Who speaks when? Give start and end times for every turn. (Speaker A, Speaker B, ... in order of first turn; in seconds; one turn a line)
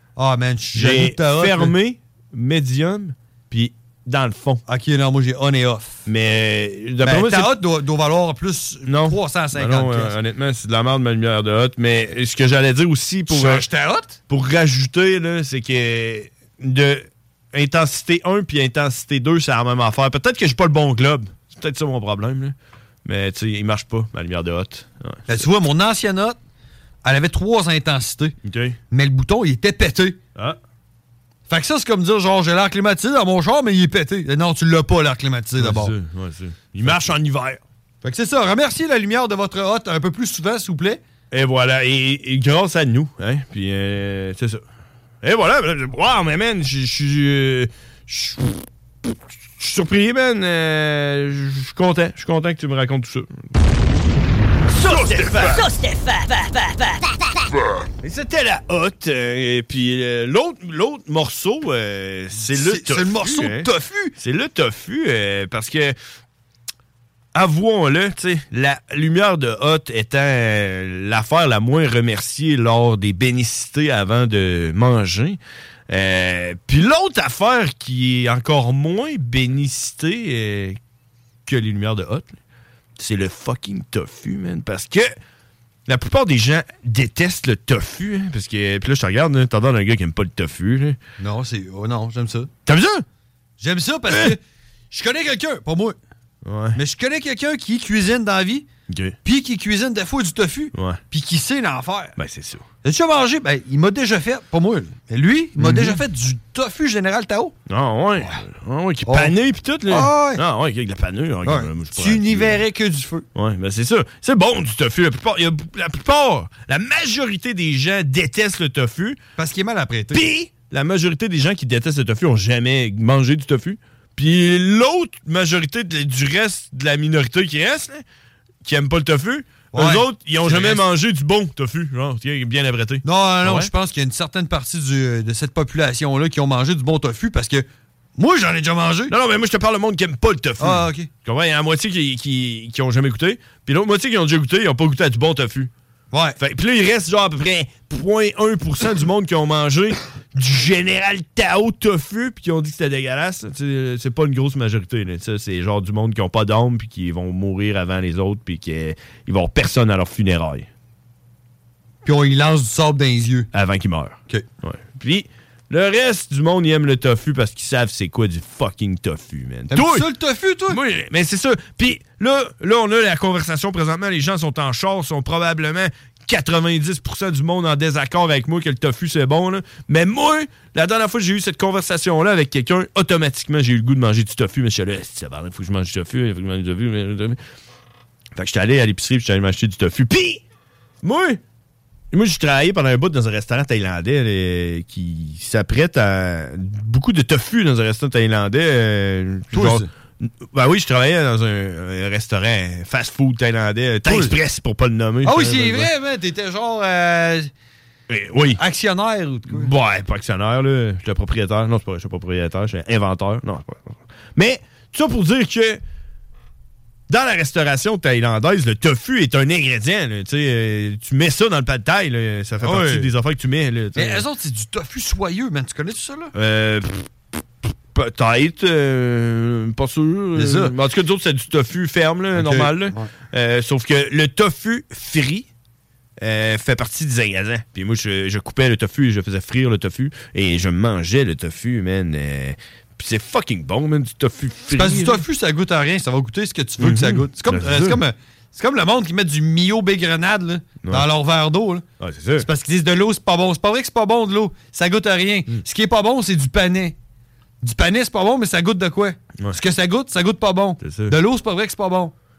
Speaker A: 0.2-1.8
Speaker B: 0.7-4.6
Speaker A: 4.7-6.0
Speaker B: 6.1-7.6
Speaker A: 7.0-10.2
Speaker B: 8.9-13.7
Speaker A: 13.3-14.2
Speaker B: 14.3-25.4
Speaker A: 25.3-26.4
Speaker A: 27.0-28.4
Speaker B: 28.4-28.8
Speaker A: 28.9-30.2
Speaker A: 31.5-35.9
Speaker B: 35.6-37.6
Speaker A: 38.0-41.0
Speaker B: 41.3-44.6
Speaker B: 45.2-53.3
Speaker B: 54.7-57.0
Speaker A: 54.8-55.7
Speaker B: 58.0-66.0
Speaker A: 62.4-64.1
Speaker B: 67.3-80.8
Speaker B: 81.5-82.4
Speaker B: 83.0-85.1
Speaker B: 85.9-91.0
Speaker A: 91.2-92.5
Speaker B: 92.7-93.0
Speaker A: 93.6-96.0
Speaker B: 94.1-94.4
Speaker B: 96.4-96.8
Speaker A: 96.8-98.7
Speaker B: 98.9-99.2
Speaker A: 99.2-102.2
Speaker B: 100.7-101.0
Speaker B: 102.2-102.7
Speaker A: 102.8-107.5
Speaker B: 105.6-106.0
Speaker B: 107.7-112.6
Speaker A: 109.1-109.3
Speaker A: 109.9-110.4
Speaker A: 111.5-113.3
Speaker B: 113.3-119.2
Speaker A: 119.4-120.2
Speaker B: 120.1-128.0
Speaker B: 128.6-133.7
Speaker A: 129.7-130.8
Speaker A: 133.0-137.7
Speaker A: 138.2-139.1
Speaker B: 139.1-145.7
Speaker A: 140.6-141.1
Speaker A: 146.1-146.4
Speaker B: 146.4-160.7
Speaker A: 162.0-163.5
Speaker B: 163.5-170.1
Speaker A: 169.7-170.8
Speaker B: 170.7-187.4
Speaker B: 188.4-190.4
Speaker B: 191.0-191.4
Speaker B: 192.1-205.9
Speaker A: 199.5-199.9
Speaker A: 204.1-204.3
Speaker A: 205.2-207.5
Speaker B: 208.1-208.6
Speaker A: 208.6-209.7
Speaker B: 209.5-215.8
Speaker B: 217.1-224.2
Speaker A: 222.6-223.1
Speaker A: 223.9-226.3
Speaker B: 226.3-227.1
Speaker B: 227.9-235.5
Speaker A: 230.3-230.7
Speaker A: 232.3-233.1
Speaker B: 236.2-245.2
Speaker A: 244.7-251.8
Speaker B: 246.8-248.0
Speaker B: 250.8-251.1
Speaker B: 252.0-252.5
Speaker A: 252.4-257.0
Speaker A: 257.6-262.1
Speaker B: 260.8-261.2